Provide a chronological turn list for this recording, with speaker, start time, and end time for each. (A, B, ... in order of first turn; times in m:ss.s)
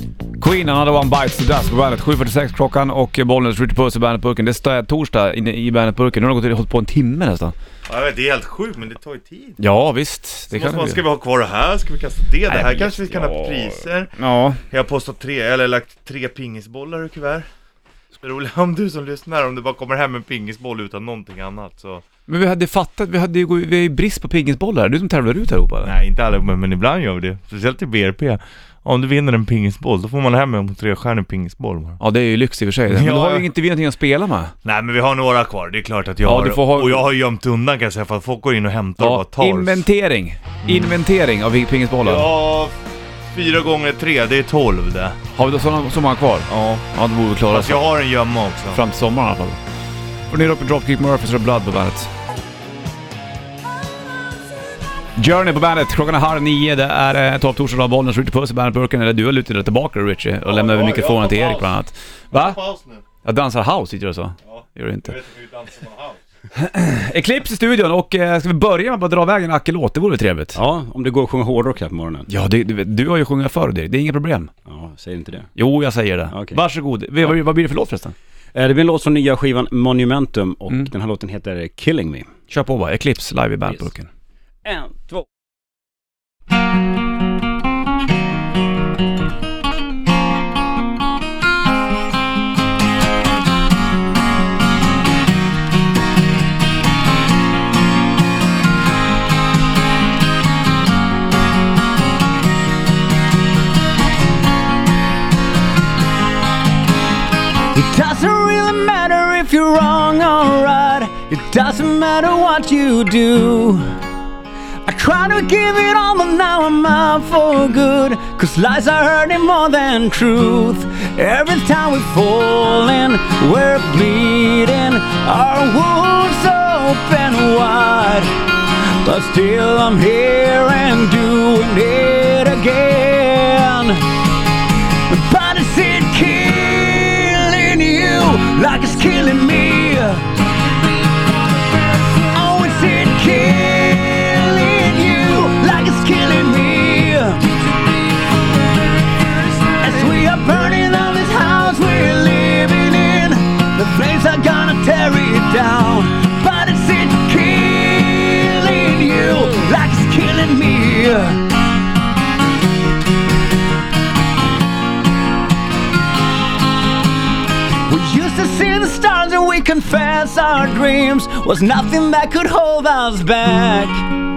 0:00.4-0:07.5 A
0:07.8-0:09.6 B
0:09.6-0:11.0 A
0:10.5-0:14.1 B
0:12.5-0:14.6 A
0:14.7-0:17.5 B
0:18.1-0:22.0 B
0:22.3-0:25.9 A
0:25.8-0:32.0 B
0:32.0-0:34.5 A
0:32.9-0:33.5 B
0:34.6-0:39.8 B
0:36.2-0:37.1 A
0:39.0-0:42.3 A
0:40.6-0:41.0 B
0:42.0-0:45.2 B
0:45.4-0:47.9 A
0:46.5-0:46.8 B
0:47.5-0:48.8 B
0:48.7-0:49.6 A
0:50.3-0:52.1 A
0:55.2-1:02.6 A
1:00.4-1:01.8 B
1:02.3-1:03.0 B
1:03.2-1:05.1 A
1:04.4-1:06.2 B
1:06.5-1:10.6 A
1:10.5-1:12.3 C
1:12.3-1:14.5 A
1:14.6-1:15.5 C
1:15.6-1:18.1 A
1:16.3-1:16.6 C
1:18.5-1:22.3 C
1:22.5-1:24.1 A
1:24.7-1:25.2 D
1:47.7-1:53.9 D
1:54.9-2:14.0 D
2:15.1-2:20.4 D
2:22.1-2:27.7 D
2:29.6-2:41.5 D
2:47.9-2:54.0 D